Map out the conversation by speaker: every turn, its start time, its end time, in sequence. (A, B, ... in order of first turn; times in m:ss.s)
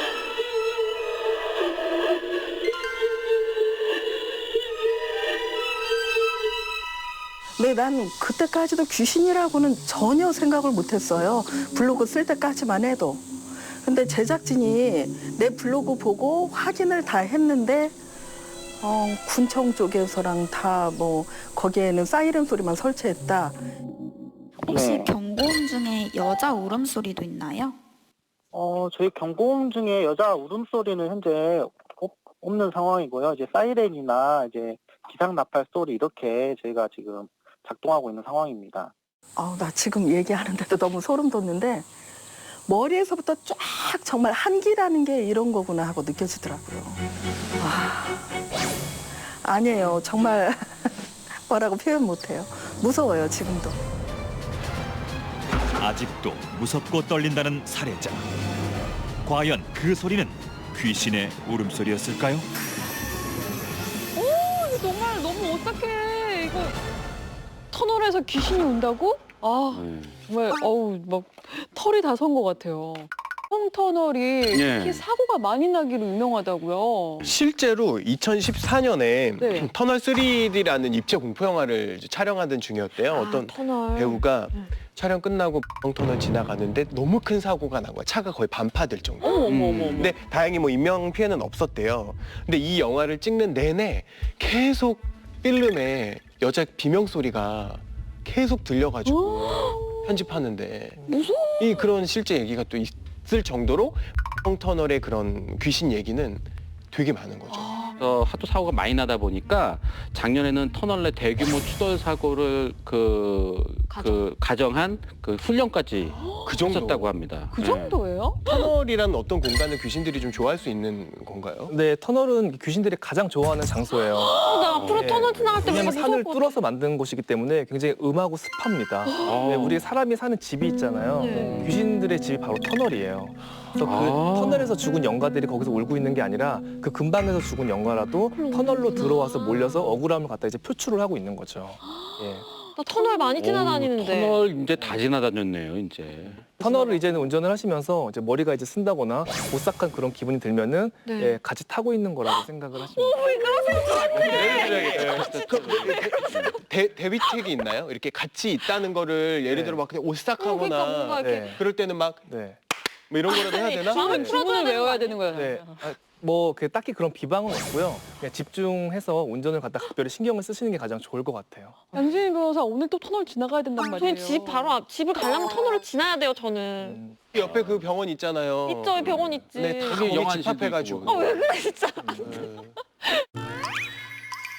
0:07.6-0:18.0 A
0:18.8-0:23.6 A
0:24.6-0:27.8 B
0:24.8-0:25.1 C
0:28.5-0:38.9 C
0:39.4-0:41.9 A
0:42.6-0:47.0 A
0:47.6-0:48.3 A
0:49.4-0:53.8 A
0:55.8-0:58.3 D
0:59.2-1:02.5 D
1:04.1-1:06.8 E
1:07.7-1:17.3 E
1:09.7-1:10.2 F
1:14.5-1:15.0 F
1:17.2-1:29.3 G
1:19.4-1:19.7 E
1:22.9-1:24.7 H
1:29.2-1:30.1 E
1:29.4-1:30.0 F
1:30.0-1:41.0 G
1:39.0-1:40.2 E
1:39.6-1:39.9 H
1:41.1-1:41.9 H
1:41.1-1:41.8 E
1:41.6-1:47.8 G
1:47.5-1:48.0 E
1:48.0-1:58.0 F
1:53.9-1:54.3 H
1:56.4-1:57.2 G
1:57.5-1:58.6 E
1:58.5-2:01.7 G
2:01.7-2:22.4 I
2:04.2-2:06.6 H
2:09.2-2:09.9 F
2:11.1-2:11.6 H
2:11.5-2:11.8 F
2:13.8-2:14.8 F
2:18.3-2:19.9 H
2:22.8-2:24.4 H
2:23.4-2:26.6 F
2:26.5-2:33.5 I
2:26.6-2:27.2 E
2:31.0-2:31.4 H
2:33.0-2:36.6 E
2:33.6-2:35.8 H
2:34.2-2:42.3 G
2:34.4-2:36.5 F
2:39.5-2:39.8 I
2:40.4-2:41.6 H
2:41.2-2:41.6 I
2:42.2-2:42.6 I
2:43.1-2:44.3 G
2:43.3-2:45.8 E
2:43.5-2:45.2 H
2:45.3-2:51.9 I
2:51.9-2:54.8 E
2:53.8-2:57.0 H
2:56.8-2:57.2 I
2:57.3-3:01.3 G
2:58.6-3:00.1 H
2:59.8-3:01.2 F
3:01.0-3:02.4 H
3:02.2-3:02.8 G